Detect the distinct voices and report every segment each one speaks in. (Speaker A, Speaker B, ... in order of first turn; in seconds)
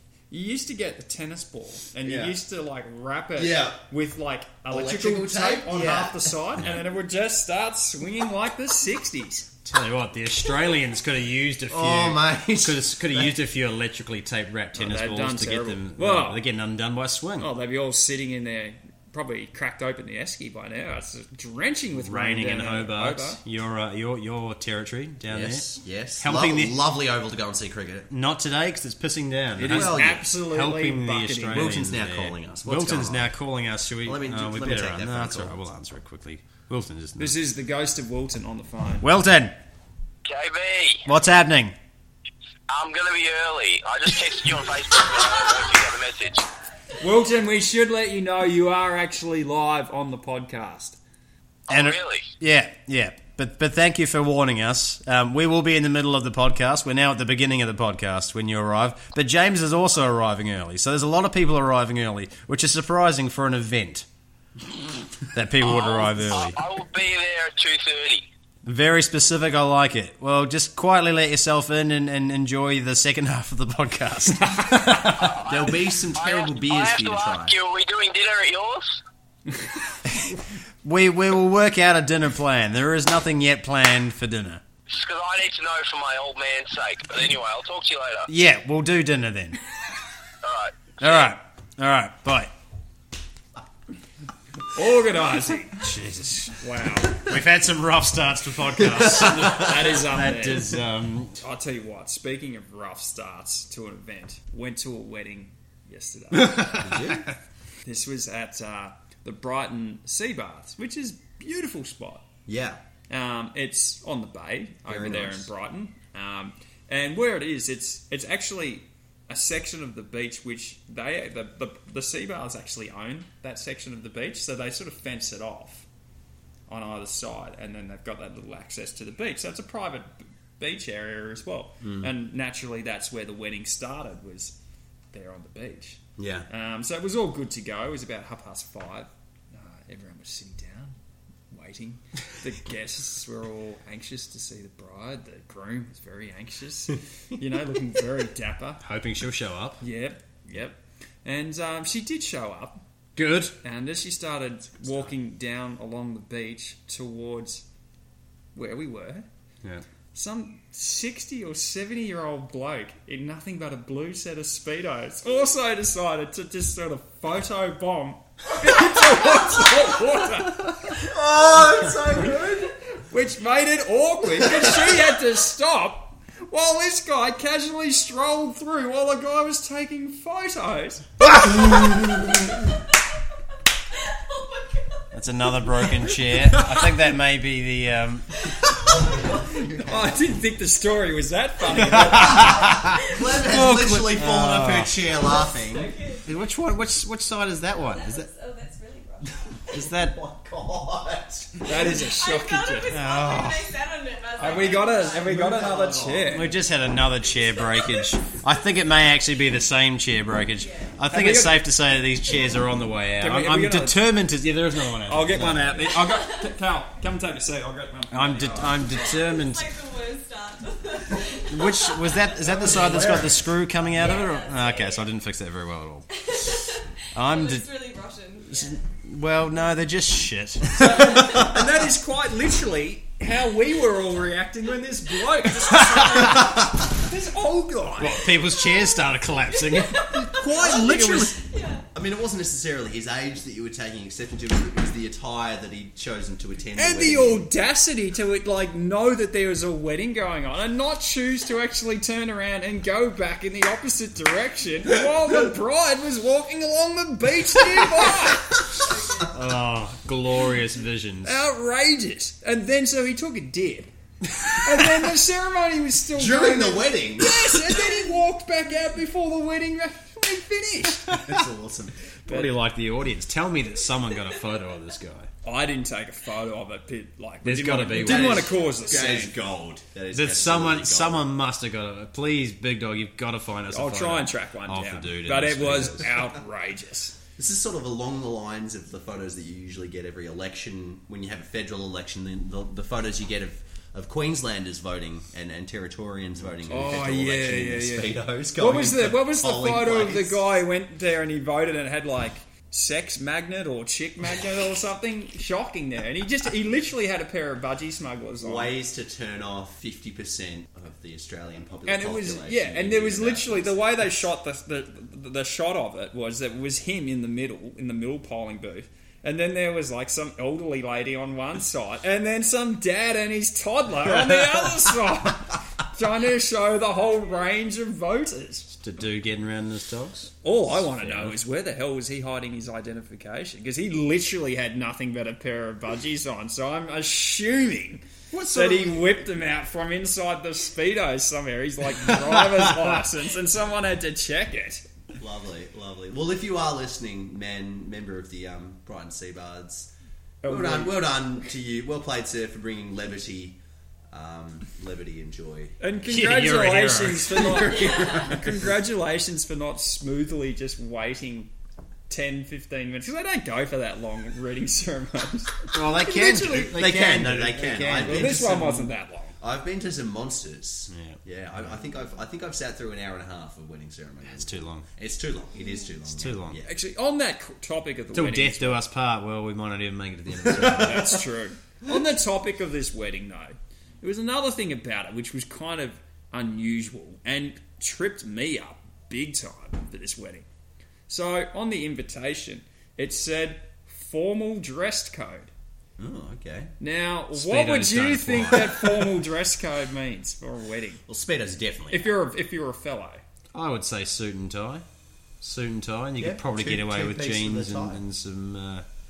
Speaker A: 0.3-9.5, 14.8-16.4, 17.4-23.4, 29.6-31.8, 37.2-39.1, 47.0-51.0, 94.7-95.9, 96.6-97.2, 99.4-100.7, 101.4-106.9, 107.9-112.3, 113.1-125.9, 126.7-134.6, 135.1-140.9, 141.5-148.8, 149.8-152.8, 153.6-157.7, 158.6-159.3, 160.1-171.2, 173.1-181.1, 186.4-186.9, 189.8-192.6, 201.6-203.0, 204.4-206.6, 211.1-211.7, 213.2-214.1, 215.1-219.2, 222.7-223.2, 230.7-238.3, 240.6-241.1, 246.8-258.7, 261.2-263.9, 264.4-271.2, 272.3-272.5, 275.4-279.4, 283.7-287.1, 296.7-308.7, 311.9-328.7, 330.4-344.8, 350.4-351.1, 355.8-361.5, 362.1-367.0, 367.9-369.4, 376.6-378.8, 380.5-390.5, 391.1-395.5, 396.8-401.0, 401.9-403.2
Speaker B: 2.0-2.4, 3.4-3.8, 4.7-6.7, 11.7-13.4, 25.3-28.1, 29.7-30.3, 31.5-33.3, 34.0-35.6, 75.3-77.6, 98.8-99.7, 106.8-107.3, 112.5-112.8, 114.9-115.5, 131.8-132.1, 136.2-136.5, 170.9-172.7, 188.9-190.3, 192.4-195.9, 199.7-201.8, 204.5-206.4, 222.6-223.3, 240.3-241.4, 241.9-247.5, 266.1-267.9, 271.1-272.0, 277.9-281.3, 287.4-300.6, 308.4-314.0, 345.2-349.9, 350.4-353.6, 354.1-355.8, 357.8-358.3, 366.5-376.7, 380.5-381.0, 396.0-396.7, 401.1-402.2, 406.2-408.0
Speaker C: 9.7-17.5, 21.9-26.9, 28.1-37.4, 39.0-39.6, 41.1-41.8, 51.7-64.1, 65.3-66.6, 68.6-75.3, 80.2-84.6, 88.3-89.6, 91.0-92.5, 95.7-96.6, 97.1-101.4, 106.4-107.3, 148.8-149.8, 153.2-153.6, 185.1-188.5, 191.8-195.2, 196.2-198.3, 199.7-200.2, 202.9-203.8, 206.3-216.0, 218.1-219.7, 221.5-226.1, 227.1-227.7, 228.5-231.5, 235.9-236.5, 238.0-241.3, 259.3-261.4, 272.3-275.3, 277.4-278.5, 280.1-286.1, 328.7-331.4, 338.3-339.1, 342.0-342.8, 356.1-358.4, 365.7-368.5, 370.9-371.7, 374.2-374.9, 376.1-376.6, 378.1-381.2, 397.3-399.2, 403.5-404.9, 405.4-408.9
Speaker D: 40.2-41.1, 42.7-46.4, 51.7-52.3, 65.6-68.3, 75.1-79.0, 84.9-88.3, 90.4-91.3
Speaker E: 184.1-185.0, 188.7-189.2, 192.2-193.2, 195.1-196.4, 197.7-199.5, 201.9-205.5, 207.6-207.9, 210.6-210.9, 218.8-222.5, 223.9-225.1, 226.2-228.8, 239.5-240.6, 241.4-241.8, 258.7-259.3, 278.5-279.2, 357.8-358.2, 375.6-375.8